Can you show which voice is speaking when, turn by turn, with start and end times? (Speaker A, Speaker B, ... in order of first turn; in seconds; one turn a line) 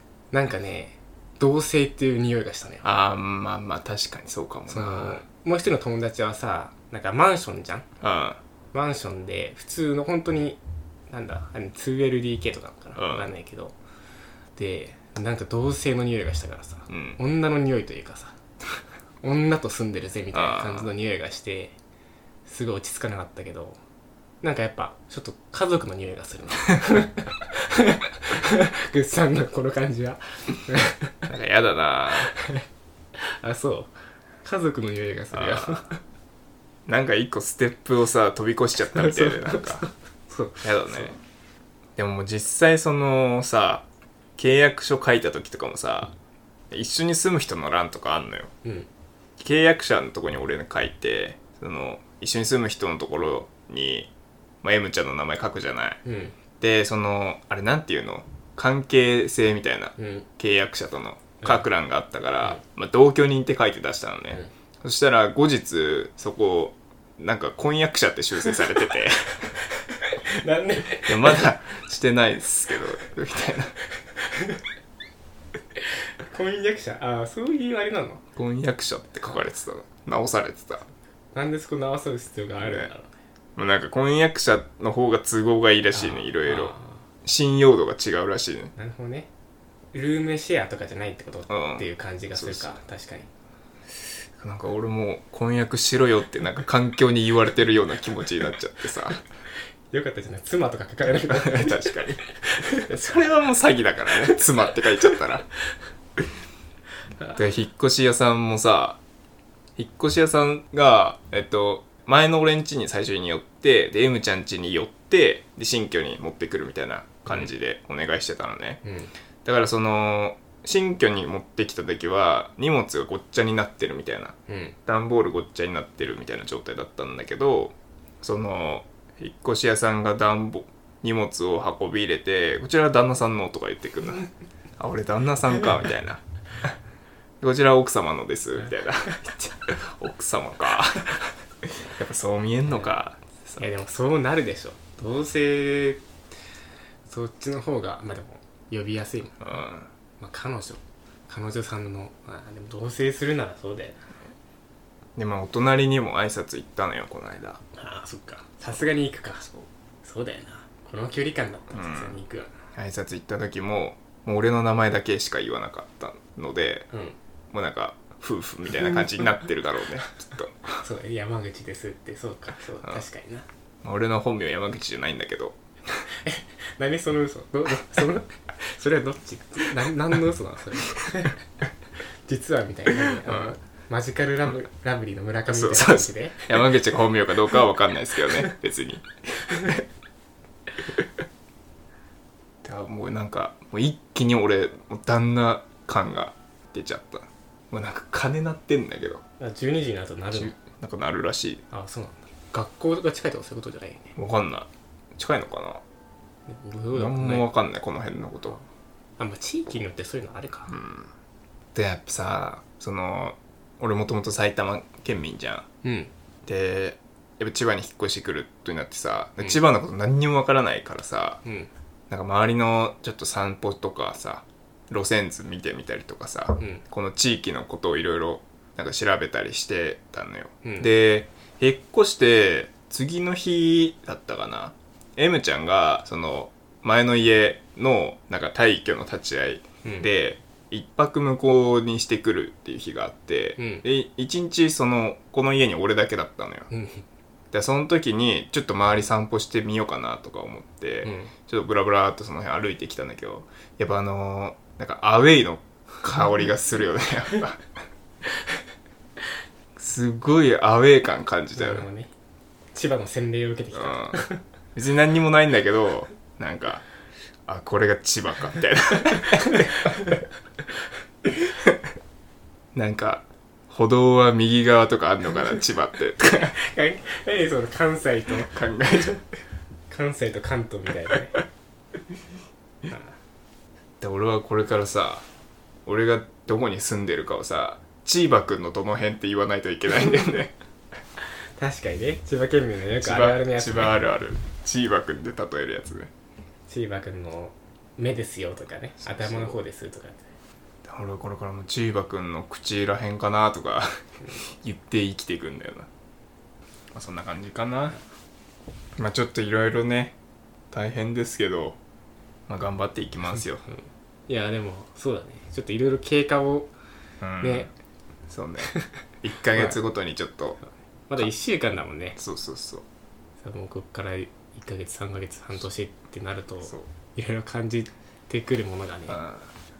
Speaker A: 0.3-2.9
Speaker B: 2.8-5.2
Speaker A: 4.7-7.8
Speaker B: 8.0-8.4
Speaker A: 8.7-13.8
Speaker B: 13.0-13.3
Speaker A: 14.6-18.3
Speaker B: 16.9-17.2
Speaker A: 19.2-21.7
Speaker B: 20.3-20.9
Speaker A: 22.4-23.8
Speaker A: 24.4-31.1
Speaker B: 31.3-32.3
Speaker A: 32.2-32.6
Speaker A: 33.2-36.0
Speaker B: 35.3-35.8
Speaker B: 36.9-39.9
Speaker A: 38.9-41.1
Speaker B: 40.6-41.2
Speaker B: 42.0-43.9
Speaker B: 44.4-46.1
Speaker B: 46.7-48.5
Speaker B: 49.4-54.1
Speaker B: 54.6-56.0
Speaker A: 56.0-56.3
Speaker B: 56.6-69.5
Speaker A: 60.0-60.2
Speaker A: 69.6-71.5
Speaker B: 71.0-73.8
Speaker A: 74.1-74.6
Speaker A: 75.8-78.2
Speaker B: 78.3-80.8
Speaker A: 81.3-83.1
Speaker B: 82.6-82.9
Speaker B: 83.5-88.7
Speaker A: 85.9-87.0
Speaker A: 88.8-89.3
Speaker A: 89.9-93.3
Speaker B: 91.5-92.8
Speaker B: 94.4-99.2
Speaker A: 99.9-102.7
Speaker B: 101.3-102.2
Speaker B: 102.8-105.5
Speaker B: 107.3-109.0
Speaker B: 109.8-118.8
Speaker A: 118.8-119.1
Speaker B: 119.4-124.3
Speaker A: 124.5-124.8
Speaker B: 124.9-136.2
Speaker B: 137.4-141.2
Speaker B: 141.8-143.7
Speaker A: 142.7-142.9
Speaker A: 143.6-146.0
Speaker A: 147.1-149.6
Speaker B: 149.4-149.9
Speaker A: 150.2-154.1
Speaker B: 155.2-157.6
Speaker A: 157.7-159.5
Speaker A: 160.0-162.5
Speaker B: 161.7-162.2
Speaker B: 162.7-166.9
Speaker B: 167.5-170.8
Speaker A: 170.8-173.4
Speaker B: 173.8-176.0
Speaker A: 176.1-181.6
Speaker A: 182.2-186.5
Speaker B: 183.3-183.6
Speaker B: 185.5-189.8
Speaker B: 192.6-199.2
Speaker A: 199.4-200.6
Speaker B: 200.3-201.6
Speaker A: 201.7-204.2
Speaker B: 204.2-205.8
Speaker A: 206.5-207.5
Speaker B: 206.9-208.6
Speaker A: 209.2-210.7
Speaker B: 210.7-211.1
Speaker B: 211.7-215.6
Speaker A: 215.8-216.1
Speaker B: 216.4-221.4
Speaker B: 222.1-246.7
Speaker A: 230.6-230.9
Speaker A: 243.6-243.8
Speaker A: 246.7-247.0
Speaker B: 247.5-257.6
Speaker A: 251.0-251.3
Speaker B: 259.8-261.9
Speaker A: 261.6-262.1
Speaker A: 262.7-264.4
Speaker B: 263.7-266.9
Speaker B: 267.5-269.9
Speaker B: 272.7-276.6
Speaker A: 276.4-278.6
Speaker B: 278.4-279.2
Speaker A: 279.9-281.4
Speaker B: 284.0-285.2
Speaker B: 285.9-290.5
Speaker A: 291.6-294.0
Speaker B: 293.0-296.1
Speaker A: 296.7-300.3
Speaker B: 299.0-299.6
Speaker B: 300.8-305.9
Speaker B: 306.9-308.0
Speaker B: 309.0-310.1
Speaker B: 310.7-311.8
Speaker B: 312.5-313.6
Speaker A: 313.7-316.7
Speaker B: 317.2-317.7
Speaker A: 317.4-317.7
Speaker B: 318.3-320.6
Speaker A: 319.5-319.8
Speaker A: 320.6-322.2
Speaker B: 322.2-322.8
Speaker A: 323.4-329.2
Speaker B: 329.1-329.5